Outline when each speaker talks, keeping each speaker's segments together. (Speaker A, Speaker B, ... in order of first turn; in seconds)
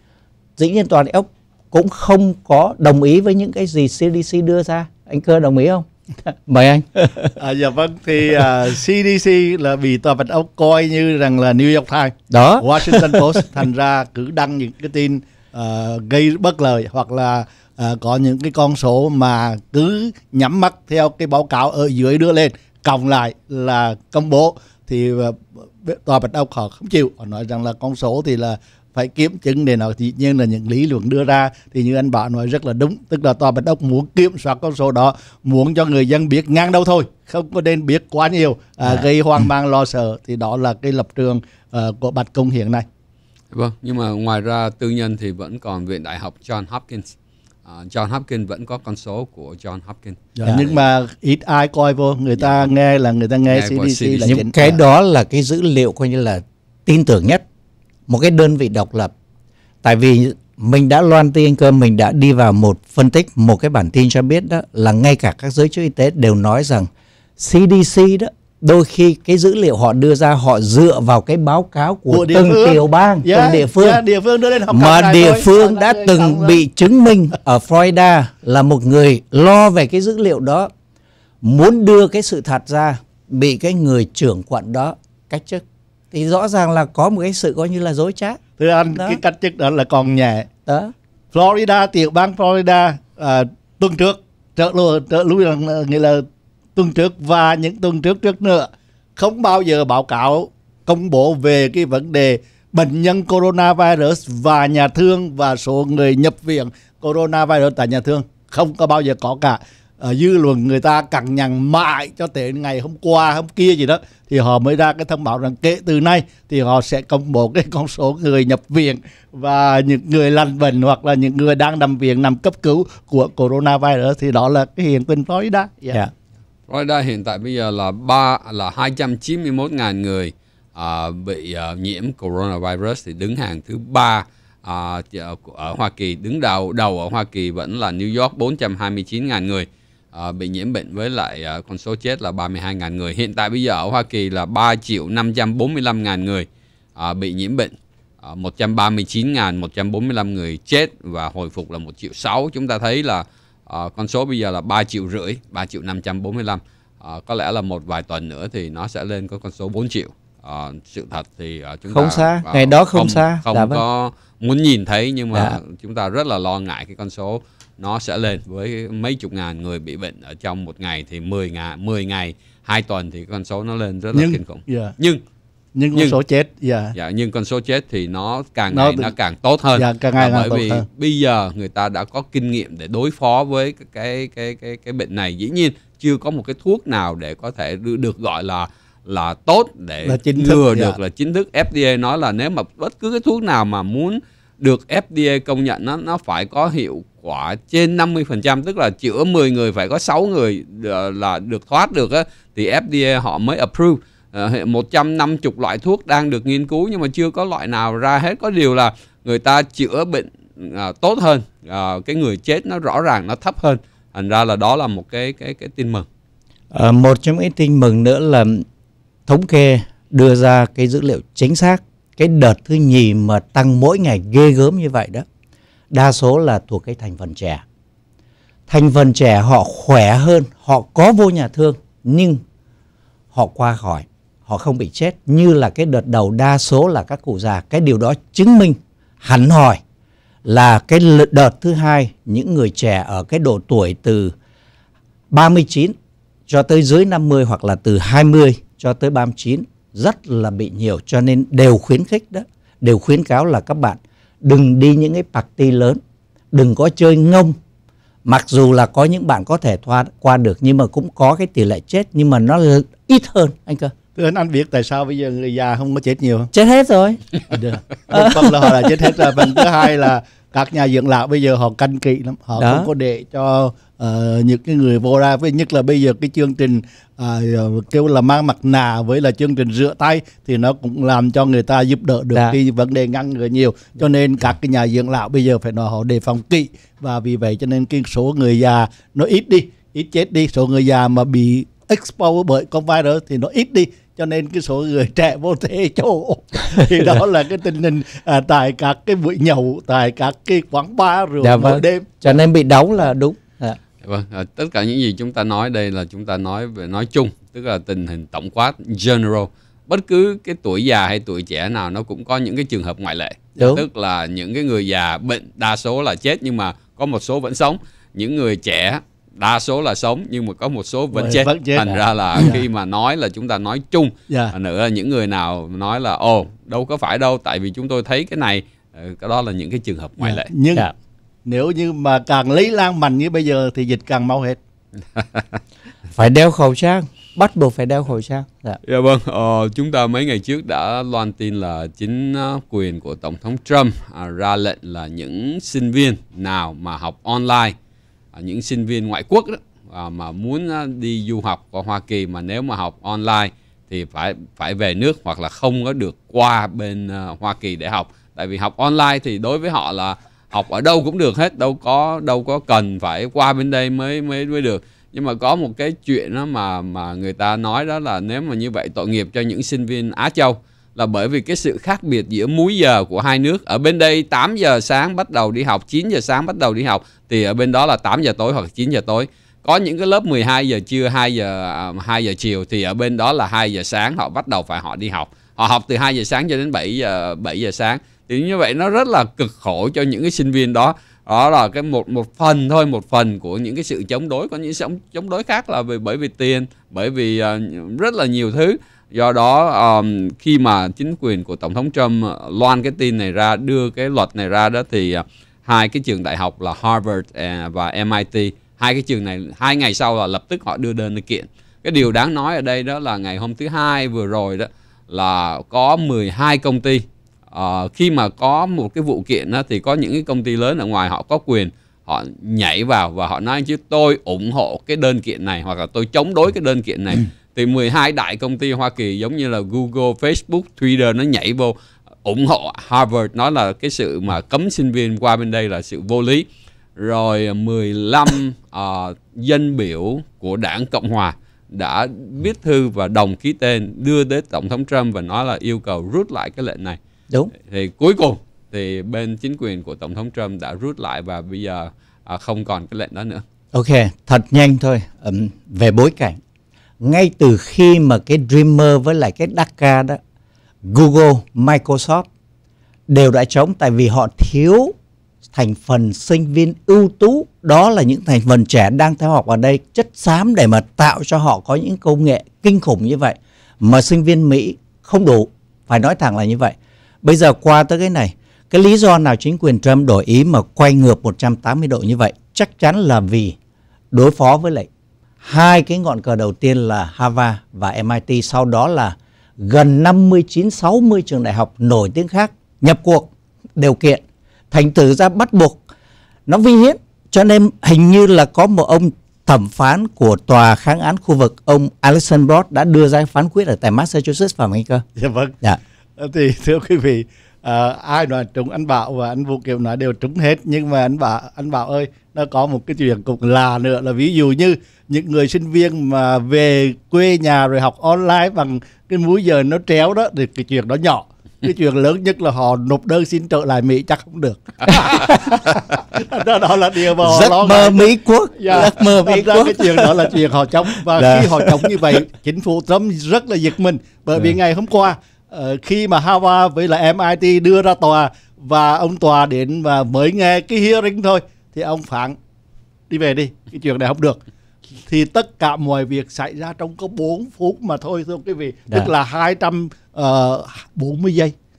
Speaker A: 0.6-7.4, 12.3-13.4, 54.2-57.4, 58.1-59.1, 59.8-74.0, 74.7-80.7, 81.4-88.4, 89.0-89.2, 90.7-90.9, 161.9-163.8, 216.7-218.7, 219.3-225.3, 225.9-227.6, 228.7-232.4, 233.3-239.8, 240.4-244.3, 245.3-245.9, 246.5-256.0, 256.5-257.6, 258.2-263.9, 266.5-267.2, 268.1-269.7, 272.6-272.9, 301.4-303.8, 313.6-313.8, 336.1-338.8, 453.7-456.4, 457.0-460.2, 460.9-462.3, 463.1-464.9, 465.5-483.6, 484.1-484.9, 485.4-495.9, 496.5-505.0, 525.1-525.5, 527.2-530.4, 531.0-532.0
Speaker B: 7.4-42.9, 50.4-54.8, 72.1-76.6, 88.6-90.5, 91.3-96.2, 96.8-126.0, 174.1-174.9, 175.8-176.9, 178.7-179.1, 179.8-180.8, 190.1-191.0, 264.2-266.5, 267.5-302.3, 321.1-322.6, 324.3-324.5, 330.2-330.9, 331.5-334.6, 505.2-505.6, 506.2-542.4, 543.1-544.4, 545.1-551.5
Speaker C: 43.5-47.1, 47.6-50.8, 52.4-52.7, 53.5-54.4, 126.7-175.2, 176.9-216.1, 304.0-330.5, 335.2-335.6, 338.9-347.8, 348.3-447.0, 447.6-453.4